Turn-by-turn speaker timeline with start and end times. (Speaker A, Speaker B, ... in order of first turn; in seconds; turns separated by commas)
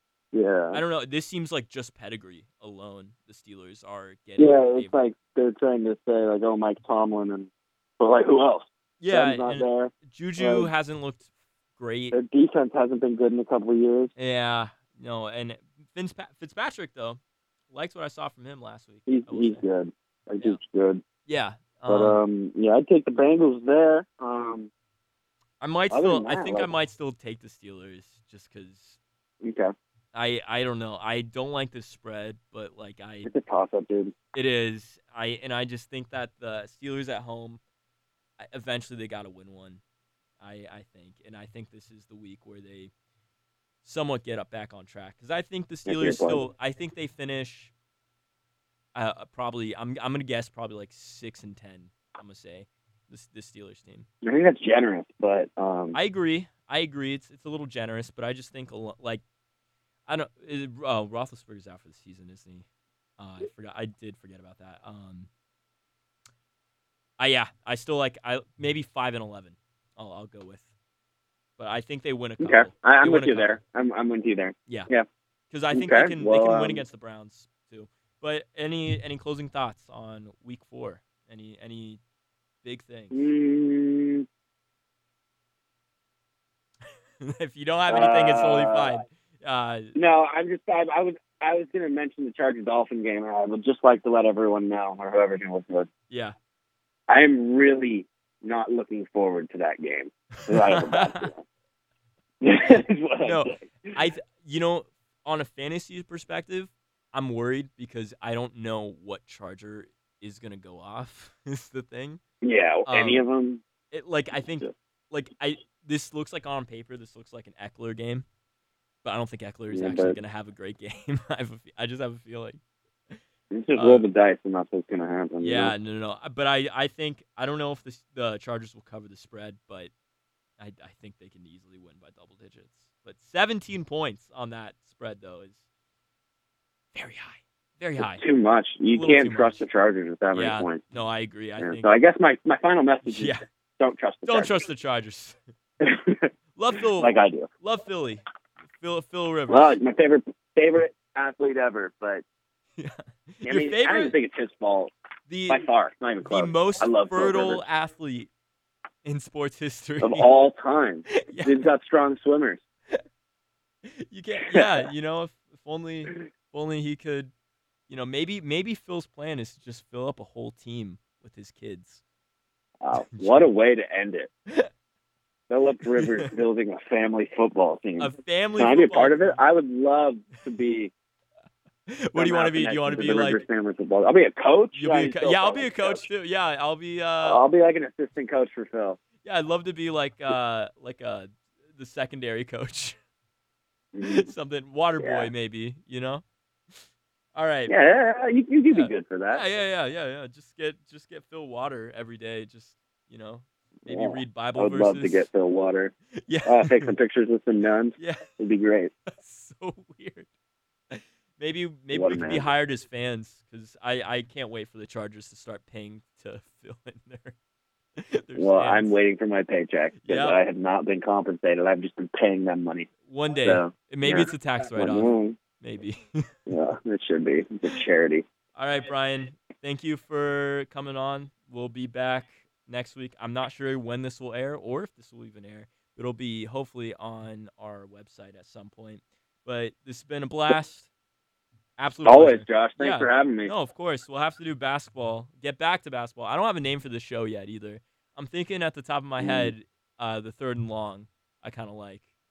Speaker A: 0.3-0.8, Speaker B: 0.7-5.0, Speaker A: 4.4-10.7, Speaker B: 9.0-12.2, Speaker A: 12.1-14.1, Speaker B: 14.2-17.2, Speaker B: 17.7-19.6, Speaker A: 19.1-21.0, Speaker B: 21.2-22.2, Speaker A: 21.9-24.7, Speaker B: 25.6-29.0, Speaker A: 25.9-26.7, Speaker A: 29.4-29.7, Speaker B: 30.1-33.3, Speaker A: 33.2-34.1, Speaker B: 34.3-37.6, Speaker B: 38.4-39.8, Speaker B: 40.4-42.9, Speaker B: 43.8-47.7, Speaker A: 45.9-46.4, Speaker B: 48.9-54.1, Speaker A: 54.2-56.0, Speaker B: 55.9-59.2, Speaker B: 60.1-62.6, Speaker B: 63.2-65.3, Speaker B: 67.2-70.7, Speaker B: 71.6-73.6, Speaker A: 72.4-75.0, Speaker B: 75.5-82.0, Speaker A: 75.7-76.8, Speaker B: 82.6-83.3, Speaker A: 83.1-84.2, Speaker B: 87.2-89.9, Speaker A: 87.9-88.9, Speaker A: 89.9-95.9, Speaker B: 96.1-96.3, Speaker A: 97.1-101.4, Speaker B: 100.4-101.3, Speaker A: 102.4-103.9, Speaker B: 103.2-112.2, Speaker A: 112.4-113.6, Speaker B: 112.8-113.2, Speaker B: 113.9-118.2, Speaker B: 119.0-122.6, Speaker A: 119.7-120.2, Speaker A: 123.5-125.7, Speaker B: 123.7-124.0, Speaker B: 125.4-129.9, Speaker B: 130.6-135.6, Speaker B: 136.9-138.2, Speaker A: 138.0-140.8, Speaker B: 138.9-139.6, Speaker B: 140.3-141.9, Speaker A: 141.6-144.6, Speaker B: 143.1-143.4, Speaker B: 144.2-145.4, Speaker A: 145.8-146.3, Speaker B: 146.6-148.2, Speaker A: 146.9-147.5, Speaker B: 148.8-149.8, Speaker A: 149.5-152.2, Speaker B: 152.8-154.1, Speaker A: 153.4-154.9, Speaker B: 155.3-155.6, Speaker A: 155.5-157.6, Speaker B: 156.2-158.3, Speaker B: 159.0-160.3, Speaker A: 160.0-162.6, Speaker B: 161.1-161.7, Speaker B: 163.9-167.3, Speaker B: 167.9-172.0, Speaker A: 172.8-174.3, Speaker B: 172.9-173.5, Speaker A: 175.5-180.9, Speaker B: 175.8-176.3, Speaker B: 178.0-179.4, Speaker B: 181.9-183.4, Speaker A: 182.2-186.1, Speaker B: 184.7-187.4, Speaker A: 187.2-189.0, Speaker B: 189.2-193.0, Speaker A: 193.9-194.3, Speaker B: 194.0-196.2, Speaker A: 195.0-195.3, Speaker B: 197.3-197.7, Speaker A: 197.7-199.4, Speaker B: 198.7-205.3, Speaker A: 203.8-205.9, Speaker B: 206.1-206.9, Speaker A: 206.4-208.9, Speaker B: 208.0-208.3, Speaker B: 209.1-210.3, Speaker B: 210.9-217.3, Speaker A: 211.9-212.4, Speaker B: 218.0-218.9, Speaker A: 218.3-222.9, Speaker B: 220.0-220.4, Speaker B: 223.1-226.4, Speaker A: 223.4-225.4, Speaker A: 226.5-228.2, Speaker B: 228.6-240.9, Speaker B: 241.8-252.1, Speaker A: 242.0-243.5, Speaker A: 249.2-249.5